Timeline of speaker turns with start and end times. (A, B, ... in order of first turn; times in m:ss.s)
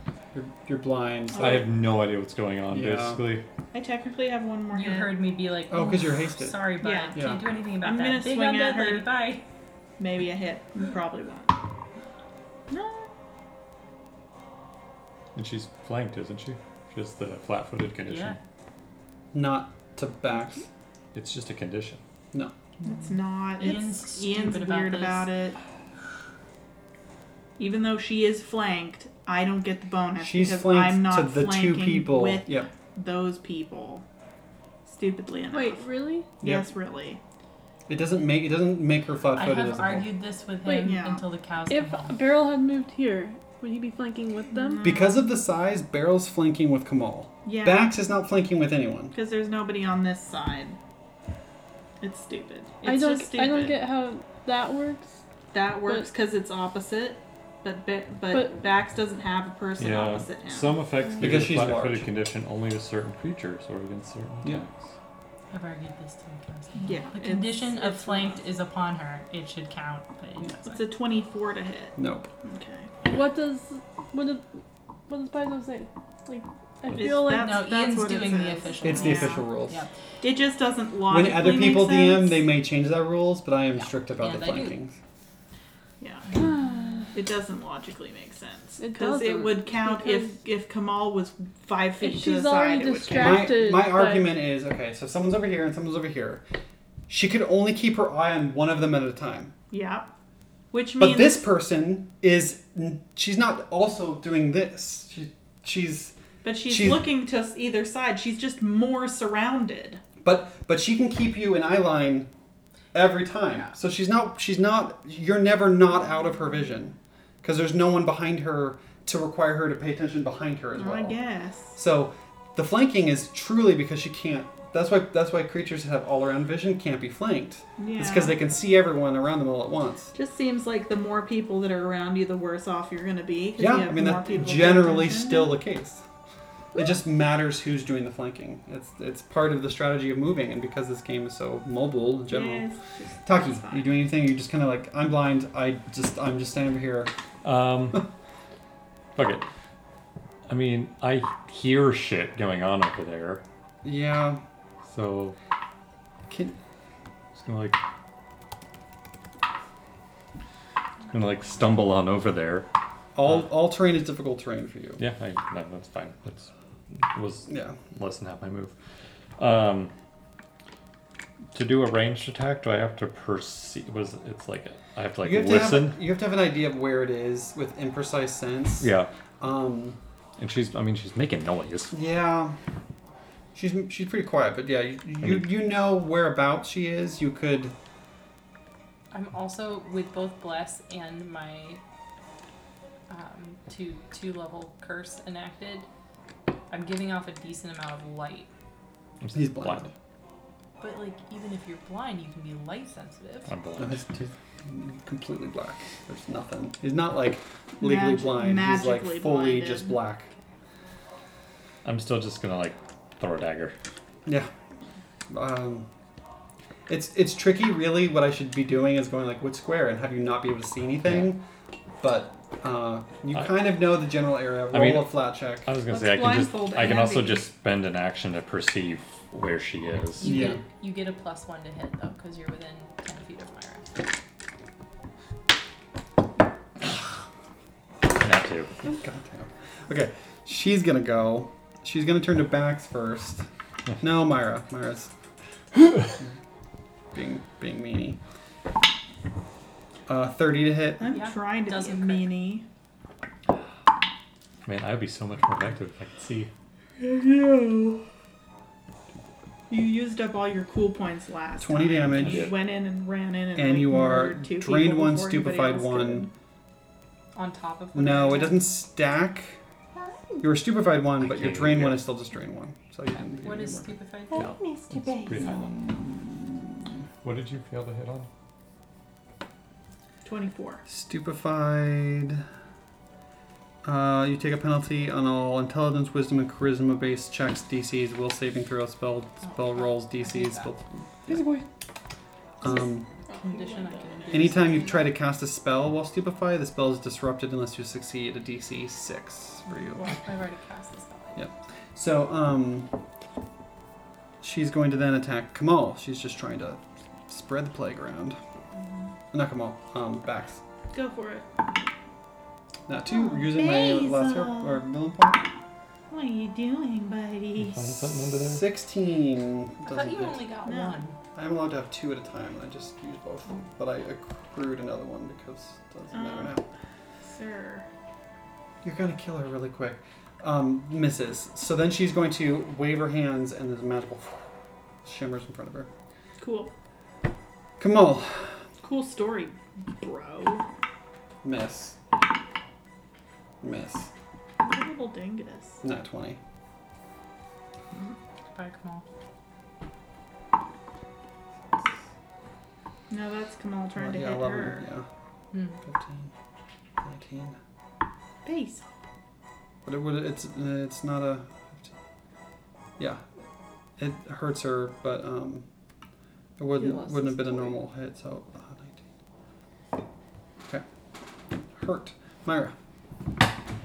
0:00.3-0:01.7 A
0:01.3-0:01.7 B
0:01.3-0:03.4 C
0:02.7-0:03.3 A
0:03.7-0:05.2 B
0:04.7-0:09.4 D
0:05.7-0:07.4 A
0:06.8-0:07.2 B
0:07.8-0:09.1 B
0:10.0-0:11.6 B
0:12.7-0:13.1 B
0:15.4-0:18.4 C
0:18.1-0:18.4 D
0:19.3-0:20.7 A
0:21.1-0:22.0 C
0:22.8-0:25.6 B
0:23.6-0:25.3 D
0:27.6-0:34.0 B
0:30.2-0:32.7 A
0:34.8-0:37.2 B
0:35.5-0:36.4 E
0:36.4-0:36.7 A
0:37.9-0:40.1 A
0:39.3-0:42.2 D
0:40.7-0:41.0 E
0:40.8-0:41.2 B
0:41.7-0:44.9 E
0:44.5-0:45.2 B
0:44.8-0:49.2 A
0:47.4-0:47.9 B
0:49.1-0:50.8 B
0:52.0-0:53.9 B
0:52.8-0:55.2 E
0:55.5-1:00.8 B
0:58.3-0:58.6 E
0:59.8-1:04.9 C
1:01.2-1:02.1 A
1:05.5-1:10.8 D
1:06.8-1:08.4 B
1:10.7-1:12.9 B
1:12.0-1:12.3 A
1:13.0-1:14.5 E
1:15.1-1:17.6 E
1:16.9-1:19.5 B
1:17.2-1:19.9 D
1:18.8-1:19.8 A
1:20.2-1:22.4 B
1:21.1-1:25.0 A
1:24.2-1:24.8 D
1:26.0-1:26.3 B
1:26.3-1:27.1 E
1:27.1-1:33.5 B
1:28.8-1:30.4 E
1:32.0-1:34.3 E
1:33.2-1:36.4 A
1:37.1-1:39.5 A
1:39.7-1:40.1 B
1:40.7-1:41.5 B
1:41.0-1:46.2 A
1:46.4-1:50.0 B
1:46.7-1:47.1 A
1:50.2-1:52.3 A
1:52.9-2:01.2 A
2:00.8-2:01.8 B
2:01.7-2:10.1 A
2:07.8-2:08.4 B
2:10.1-2:15.6 B
2:13.6-2:16.0 A
2:16.8-2:22.7 A
2:22.3-2:23.9 B
2:23.2-2:27.1 A
2:27.4-2:28.1 C
2:29.2-2:29.5 C
2:30.5-2:33.4 C
2:33.8-2:34.4 A
2:34.8-2:35.4 C
2:36.3-2:36.6 A
2:37.4-2:37.8 C
2:41.1-2:42.7 C
2:43.2-2:45.0 A
2:45.0-2:48.7 C
2:47.5-2:47.8 A
2:49.4-2:49.9 C
2:51.5-2:56.0 C
2:55.2-3:00.0 A
2:58.8-2:59.1 C
3:00.4-3:01.9 C
3:01.9-3:02.6 A
3:03.6-3:07.8 A
3:05.2-3:05.5 C
3:09.1-3:11.8 D
3:13.1-3:15.9 D
3:16.7-3:18.5 D
3:19.2-3:19.9 C
3:19.3-3:19.9 A
3:20.8-3:23.5 D
3:23.5-3:24.0 C
3:23.8-3:30.3 A
3:27.8-3:30.0 B
3:31.8-3:33.8 C
3:35.3-3:35.9 A
3:36.9-3:41.4 A
3:41.0-3:41.3 C
3:42.0-3:45.7 A
3:44.7-3:50.5 C
3:45.9-3:47.5 B
3:50.2-3:50.6 A
3:50.2-3:53.8 D
3:58.1-3:58.7 C
3:58.8-4:03.5 A
4:04.0-4:05.1 A
4:07.1-4:08.2 A
4:10.1-4:11.1 A
4:11.0-4:12.6 B
4:11.1-4:12.3 D
4:14.6-4:16.5 C
4:17.0-4:18.0 B
4:19.7-4:26.3 B
4:21.6-4:22.6 A
4:22.1-4:22.6 C
4:23.6-4:26.3 A
4:27.4-4:28.7 D
4:27.9-4:29.6 A
4:30.0-4:30.5 B
4:30.4-4:34.0 A
4:31.2-4:32.1 C
4:33.2-4:34.5 D
4:34.3-4:35.7 B
4:35.1-4:35.6 C
4:35.3-4:36.6 A
4:37.2-4:38.3 C
4:40.2-4:40.8 B
4:40.9-4:42.4 A
4:43.8-4:51.6 A
4:49.4-4:50.7 D
4:52.6-4:53.1 A
4:53.3-4:54.5 E
4:53.3-4:55.1 D
4:54.3-5:00.2 A
4:59.9-5:01.5 D
5:01.4-5:02.9 A
5:04.4-5:08.4 A
5:09.3-5:10.6 A
5:10.9-5:11.5 B
5:12.9-5:15.5 A
5:13.1-5:14.8 B
5:16.1-5:17.8 B
5:17.6-5:18.7 C
5:18.3-5:20.4 A
5:19.8-5:21.2 D
5:20.6-5:21.0 B
5:21.4-5:26.6 A
5:26.1-5:26.6 B
5:27.2-5:27.9 B
5:28.8-5:34.5 A
5:35.0-5:35.9 A
5:36.4-5:36.7 B
5:37.8-5:38.6 A
5:38.8-5:40.6 B
5:41.4-5:42.0 A
5:43.6-5:44.1 A
5:44.6-5:45.8 B
5:45.8-5:46.4 A
5:48.5-5:49.0 D
5:53.1-5:54.8 B
5:54.0-5:55.1 A
5:55.5-5:55.8 D
5:55.8-5:56.3 A
5:57.0-5:57.6 A
5:58.4-5:58.9 B
5:59.8-6:01.9 A
6:03.0-6:03.2 A
6:04.0-6:05.7 A
6:06.6-6:09.0 A
6:06.8-6:07.8 E
6:11.7-6:12.8 A